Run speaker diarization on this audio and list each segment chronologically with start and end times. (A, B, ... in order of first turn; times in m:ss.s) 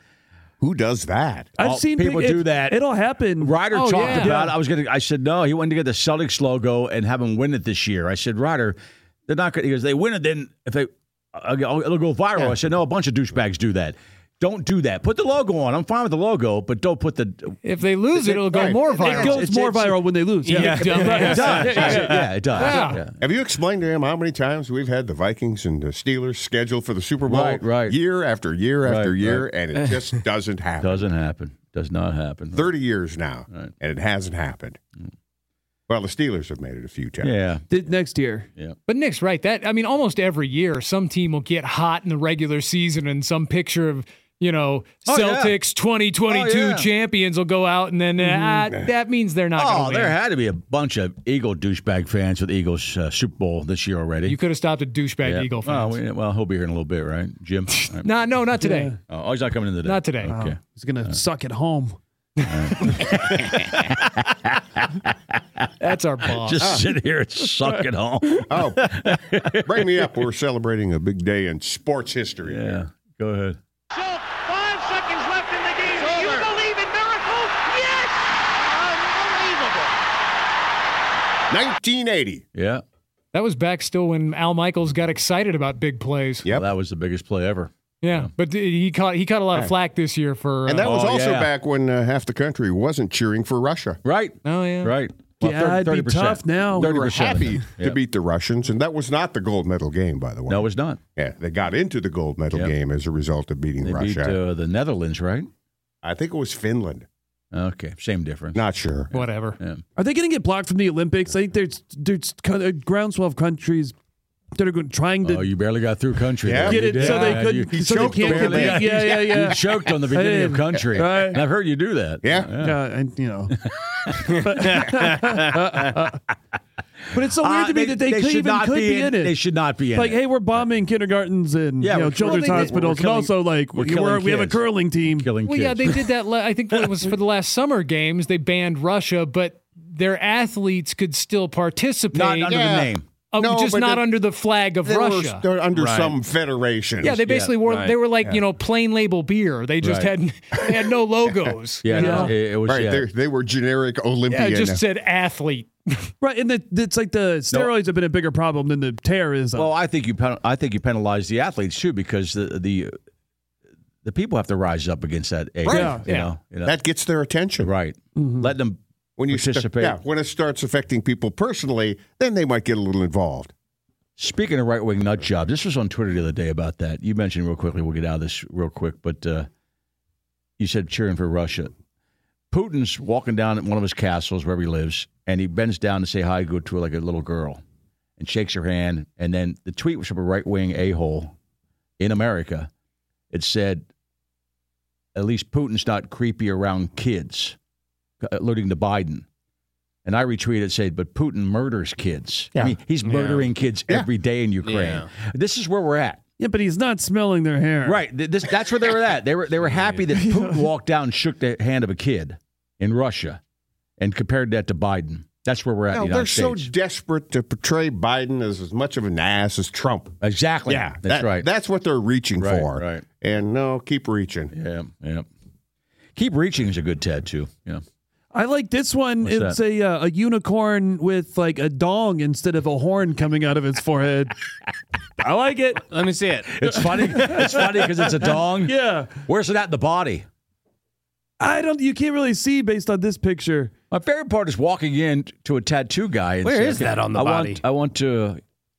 0:00.6-0:01.5 A
0:01.6-0:04.6 B
0:01.6-0:02.8 C
0:03.4-0:17.6 C
0:03.7-0:04.3 D
0:17.6-0:19.5 D
0:18.3-0:19.3 A
0:18.7-0:22.3 B
0:19.1-0:20.0 C
0:20.4-0:21.0 E
0:20.5-0:22.0 D
0:20.5-0:23.2 C
0:22.6-0:23.0 D
0:23.2-0:31.1 A
0:27.3-0:28.0 C
0:28.8-0:29.4 C
0:30.8-0:32.7 C
0:32.5-0:34.8 A
0:35.9-0:37.4 A
0:37.2-0:37.6 C
0:37.7-0:38.5 B
0:38.9-0:50.2 D
0:45.0-0:45.6 C
0:46.3-0:46.9 C
0:48.2-0:48.6 B
0:49.6-0:54.4 C
0:54.2-0:56.0 D
0:55.2-0:58.2 C
0:57.8-0:58.9 D
0:58.6-0:59.0 B
0:59.1-1:01.2 C
0:59.8-1:00.3 D
1:00.2-1:02.0 B
1:02.5-1:05.7 C
1:05.8-1:06.6 D
1:06.4-1:09.8 C
1:06.6-1:06.9 A
1:08.5-1:12.8 A
1:12.5-1:13.6 C
1:13.9-1:19.9 F
1:16.0-1:16.5 A
1:21.5-1:22.4 A
1:22.5-1:22.8 C
1:23.3-1:26.4 D
1:26.5-1:28.3 C
1:28.0-1:30.9 D
1:30.6-1:34.0 A
1:30.8-1:31.5 C
1:34.0-1:38.0 C
1:34.4-1:34.9 D
1:35.4-1:37.4 B
1:36.8-1:44.4 A
1:40.5-1:41.0 C
1:43.8-1:45.5 C
1:46.0-1:47.0 A
1:47.5-1:48.6 C
1:48.5-1:49.1 A
1:49.1-1:49.6 D
1:49.1-1:49.8 C
1:50.0-1:53.9 B
1:54.5-1:55.5 B
1:55.2-2:02.8 C
1:56.4-1:59.5 A
1:56.6-2:01.4 B
2:02.2-2:02.5 A
2:02.6-2:03.5 B
2:03.7-2:06.1 C
2:04.4-2:06.2 B
2:07.1-2:09.4 B
2:07.2-2:10.6 C
2:09.9-2:15.3 B
2:11.8-2:16.0 C
2:12.2-2:12.8 D
2:15.4-2:22.6 D
2:22.1-2:23.0 C
2:22.4-2:24.1 A
2:23.3-2:25.4 D
2:24.8-2:27.2 A
2:25.8-2:26.1 E
2:27.0-2:32.3 D
2:27.1-2:27.6 C
2:27.6-2:28.0 E
2:29.8-2:30.1 C
2:31.8-2:33.0 C
2:31.9-2:32.3 B
2:32.6-2:34.8 A
2:34.3-2:36.1 D
2:36.2-2:39.7 B
2:39.5-2:43.0 C
2:44.0-2:46.7 C
2:45.6-2:46.0 A
2:45.7-2:46.0 B
2:46.0-2:46.3 D
2:46.6-2:47.7 A
2:47.6-2:50.0 C
2:48.1-2:48.5 B
2:49.2-2:53.5 A
2:54.2-2:59.5 C
3:00.6-3:01.7 C
3:02.5-3:07.6 C
3:08.2-3:11.3 C
3:12.0-3:12.7 C
3:13.3-3:13.8 C
3:15.1-3:17.6 C
3:18.2-3:19.2 C
3:20.0-3:26.2 C
3:23.0-3:23.4 E
3:24.6-3:25.1 E
3:26.4-3:28.0 B
3:27.8-3:33.4 C
3:30.1-3:30.6 B
3:34.0-3:36.7 C
3:35.9-3:44.5 A
3:40.2-3:41.4 C
3:42.4-3:43.0 C
3:44.5-3:45.2 C
3:46.2-3:47.8 C
3:48.3-3:54.3 B
3:49.2-3:49.6 C
3:55.2-3:55.9 B
3:55.9-3:56.4 E
3:56.5-4:00.2 C
3:56.7-3:59.2 B
4:01.4-4:03.7 B
4:03.9-4:08.4 C
4:06.4-4:07.6 E